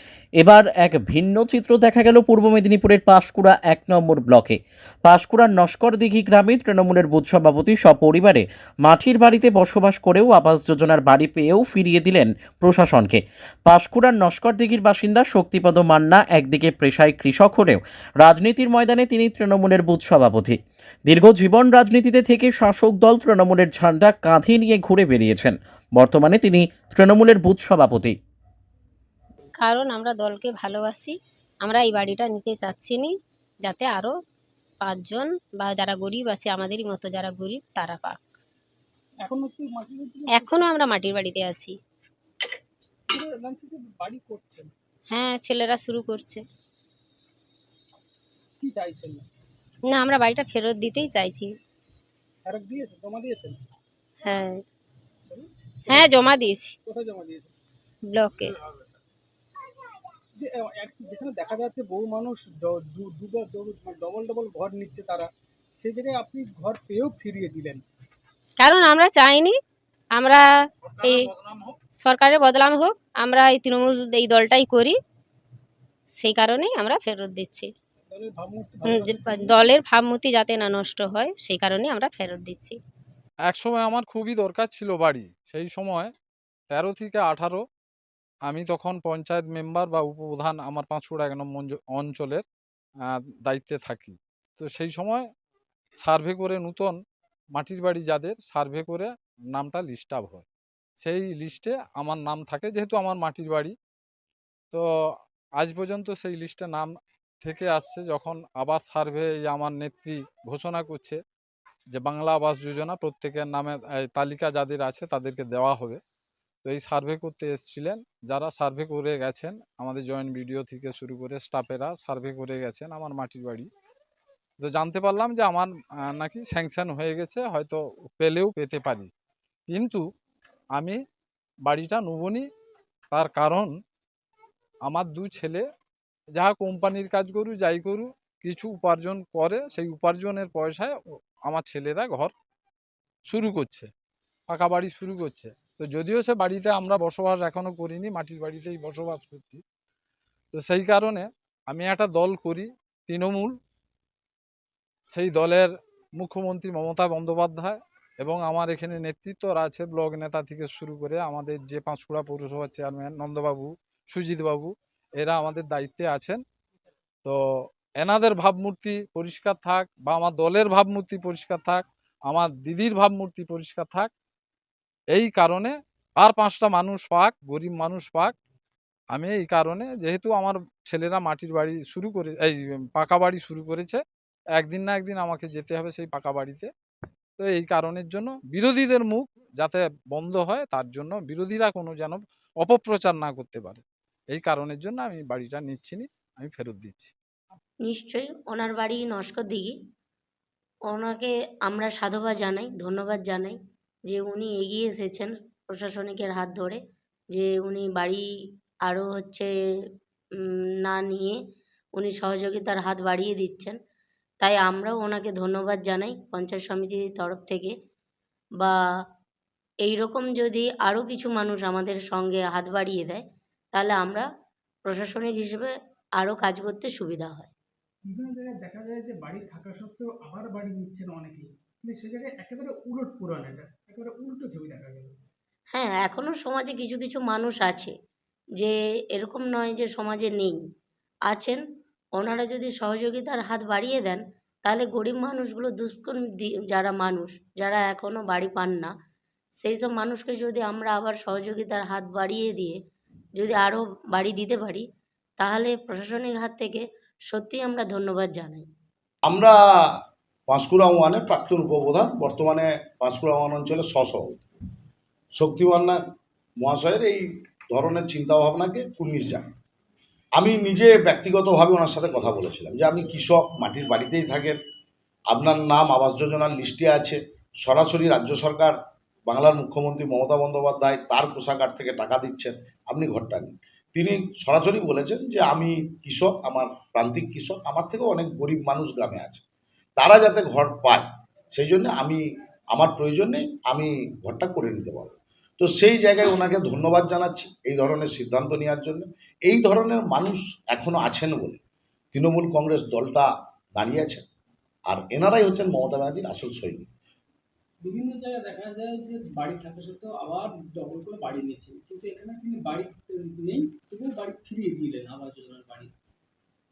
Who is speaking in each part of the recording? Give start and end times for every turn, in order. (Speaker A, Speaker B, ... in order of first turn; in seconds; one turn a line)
Speaker A: 0.4-28.2
Speaker B: 29.6-33.1
Speaker B: 33.6-34.1
Speaker B: 34.8-38.2
Speaker C: 39.2-40.7
Speaker B: 40.3-41.7
Speaker C: 43.1-44.7
Speaker B: 45.1-46.4
Speaker C: 48.6-49.2
Speaker B: 49.9-51.5
Speaker C: 52.5-53.6
Speaker B: 54.2-54.6
Speaker C: 55.3-56.1
Speaker B: 56.0-56.7
Speaker C: 56.9-57.5
Speaker B: 58.1-58.5
Speaker C: 60.4-65.3
Speaker C: 65.8-67.8
Speaker B: 68.6-69.6
Speaker B: 70.2-70.4
Speaker B: 71.0-74.9
Speaker B: 76.2-77.7
Speaker C: 78.1-79.7
Speaker B: 78.9-82.8
Speaker D: 83.5-86.1
Speaker D: 86.7-87.6
Speaker D: 88.5-92.4
Speaker D: 93.0-95.3
Speaker D: 96.0-97.0
Speaker D: 97.5-100.5
Speaker D: 101.0-103.7
Speaker D: 105.6-106.9
Speaker D: 107.4-111.2
Speaker D: 111.9-116.0
Speaker D: 116.6-123.7
Speaker D: 124.6-129.1
Speaker D: 129.7-130.0
Speaker D: 131.7-132.5
Speaker D: 133.1-133.7
Speaker D: 134.9-135.6
Speaker D: 136.3-140.9
Speaker D: 141.5-142.3
Speaker D: 143.3-143.9
Speaker D: 144.5-149.6
Speaker D: 150.5-153.5
Speaker D: 155.1-166.4
Speaker D: 168.0-174.1
Speaker D: 175.1-178.3
Speaker D: 179.1-184.0
Speaker D: 184.6-186.7
Speaker D: 187.4-197.1
Speaker E: 197.8-199.8
Speaker E: 200.9-206.8
Speaker E: 207.3-208.3
Speaker E: 208.8-209.5
Speaker E: 210.4-211.4
Speaker E: 211.9-213.8
Speaker E: 214.4-217.7
Speaker E: 219.8-223.2
Speaker E: 223.7-224.2
Speaker E: 224.9-227.5
Speaker C: 228.1-235.1
Speaker E: 235.7-237.9
Speaker E: 238.6-240.6
Speaker E: 241.3-241.6
Speaker E: 242.2-248.9
Speaker E: 249.6-252.8
Speaker E: 253.3-254.8
Speaker E: 255.4-258.7
Speaker F: 259.2-264.5
Speaker F: 265.3-266.0
Speaker F: 266.6-269.5
Speaker F: 270.4-274.6
Speaker F: 275.3-289.4
Speaker F: 290.0-301.6
Speaker F: 302.1-304.2
Speaker F: 304.9-306.9
Speaker C: 307.8-315.9